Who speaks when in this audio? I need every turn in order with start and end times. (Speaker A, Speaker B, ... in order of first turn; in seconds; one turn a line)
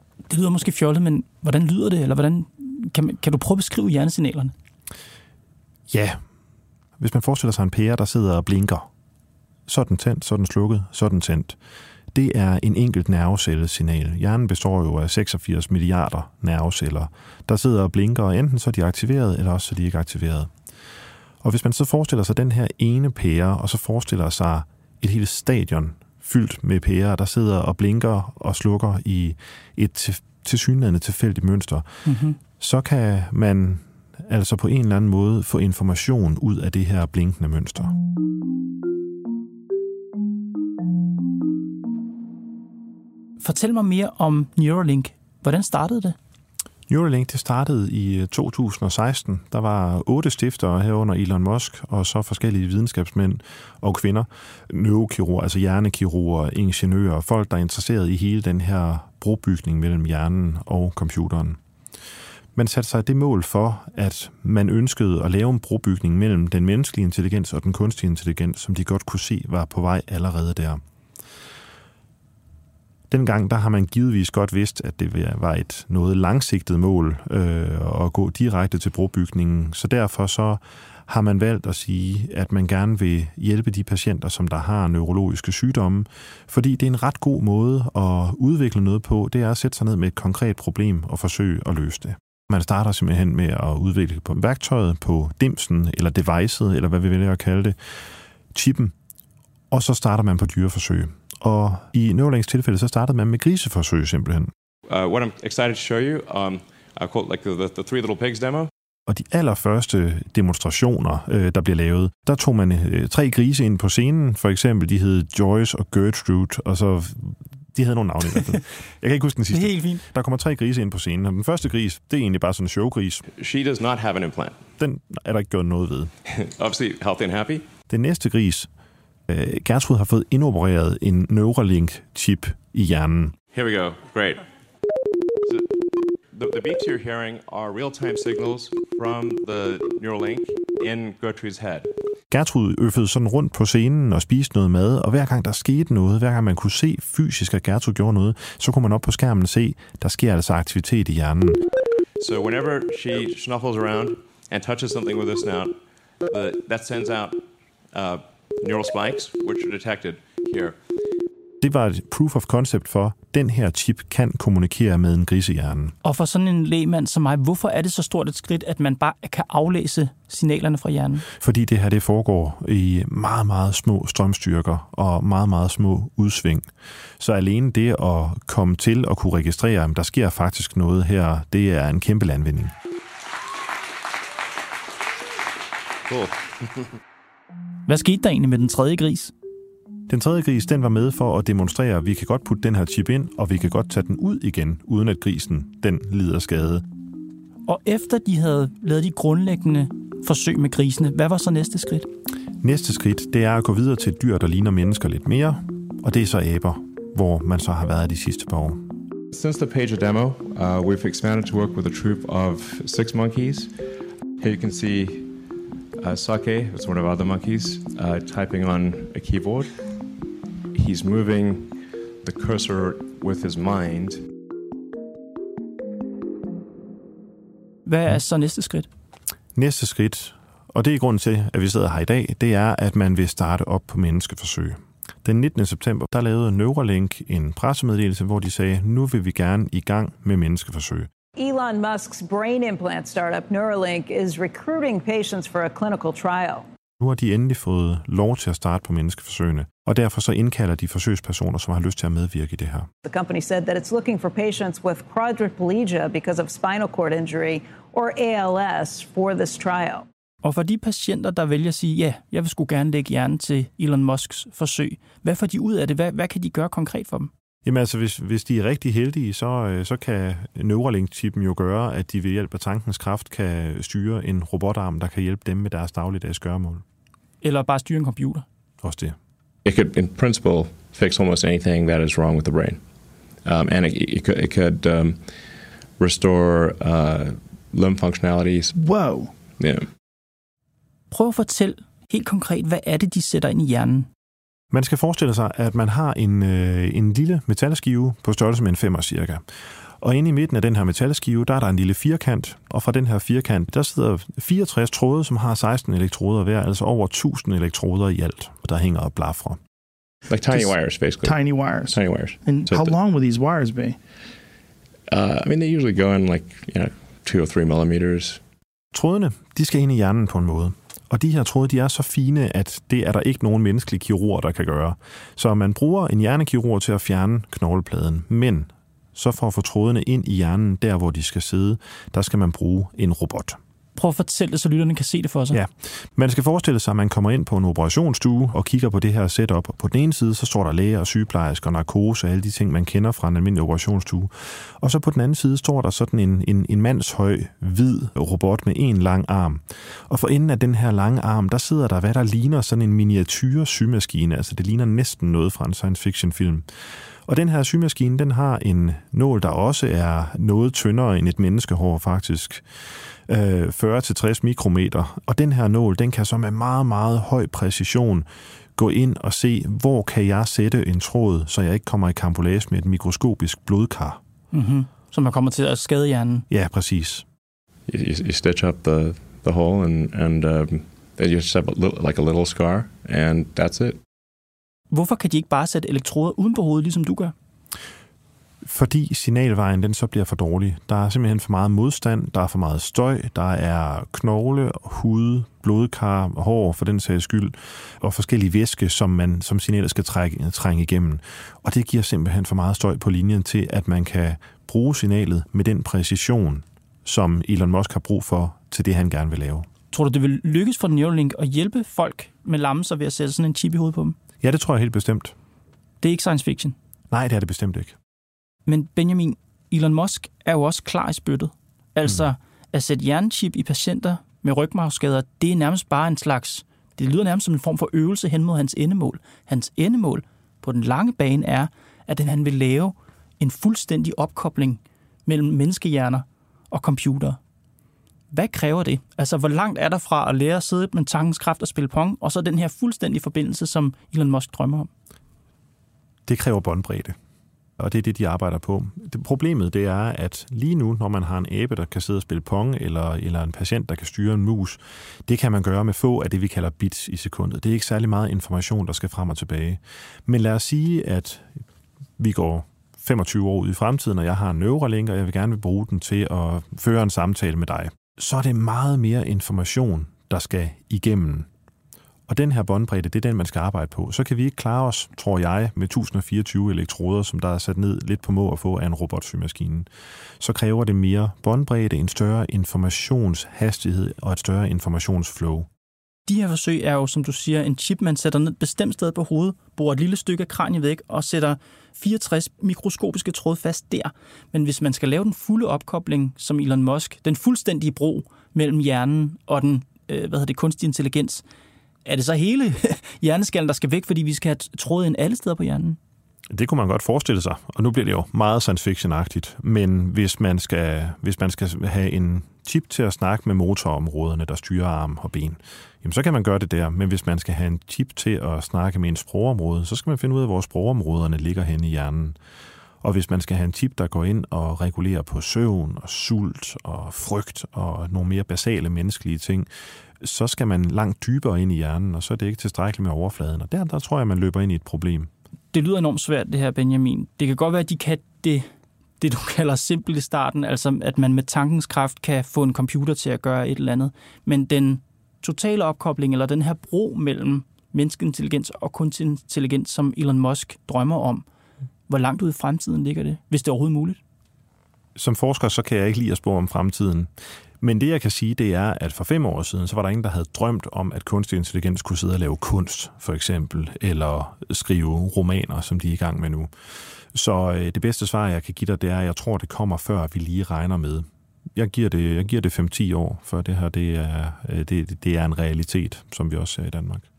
Speaker A: 0.3-4.5
Speaker B: 5.9-6.2
Speaker B: 7.0-8.9
Speaker B: 9.7-11.6
Speaker B: 12.1-20.5
Speaker B: 21.4-31.9
Speaker A: 32.0-32.4
Speaker B: 32.6-37.9
Speaker A: 43.4-46.1
Speaker B: 46.9-61.6
Speaker B: 62.5-70.8
Speaker B: 73.1-97.8
Speaker B: 98.5-98.9
Speaker B: 99.7-104.5
Speaker C: 104.9-108.7
Speaker B: 109.1-123.2
Speaker A: 119.5-120.0
Speaker C: 123.3-124.6
Speaker B: 124.8-126.1
Speaker C: 126.3-127.7
Speaker B: 127.9-128.7
Speaker B: 129.3-133.3
Speaker C: 133.5-134.4
Speaker C: 136.3-141.9
Speaker B: 142.3-151.6
Speaker C: 152.2-155.7
Speaker C: 156.2-157.4
Speaker C: 157.9-160.8
Speaker B: 161.6-165.9
Speaker A: 166.0-171.2
Speaker B: 171.3-182.7
Speaker C: 186.1-186.5
Speaker A: 187.9-189.3
Speaker B: 190.1-196.8
Speaker A: 197.7-202.1
Speaker B: 202.6-208.8
Speaker C: 209.3-213.7
Speaker C: 214.4-215.3
Speaker C: 216.0-219.8
Speaker C: 220.7-224.2
Speaker A: 227.8-228.9
Speaker B: 229.5-241.1
Speaker D: 241.3-246.6
Speaker B: 247.0-252.9
Speaker D: 253.0-260.1
Speaker A: 260.4-267.3
Speaker B: 267.6-276.8
Speaker A: 277.4-278.4
Speaker B: 278.8-279.2
Speaker C: 279.6-282.8
Speaker C: 283.4-285.3
Speaker C: 286.0-288.7
Speaker E: 288.7-289.3
Speaker C: 289.6-289.9
Speaker A: 291.1-294.1
Speaker B: 294.7-309.6
Speaker C: 310.3-312.9
Speaker E: 310.5-314.0
Speaker C: 315.1-318.4
Speaker B: 318.9-333.6
Speaker A: 333.9-335.6
Speaker B: 335.5-356.6
Speaker B: 357.2-362.6
Speaker B: 363.3-374.2
Speaker A: 374.5-376.4
Speaker B: 376.5-377.2
Speaker C: 377.9-384.0
Speaker A: 384.9-387.3
Speaker B: 388.6-409.7
Speaker A: 409.9-414.1
Speaker B: 414.4-415.3
Speaker A: 416.0-416.8
Speaker B: 417.1-418.0
Speaker A: 418.7-437.4
Speaker A: 438.3-444.9
Speaker B: 446.2-447.2
Speaker B: 447.8-461.5
Speaker B: 462.2-471.5
Speaker B: 472.3-479.9
Speaker B: 480.4-485.7
Speaker A: 486.3-501.4
Speaker A: 502.0-506.0
Speaker B: 506.5-522.4
Speaker B: 523.0-529.7
Speaker B: 530.2-535.3
Speaker A: 535.7-538.7
Speaker A: 539.2-551.4
Speaker A: 552.1-554.2
Speaker B: 555.1-566.7
Speaker B: 567.3-577.2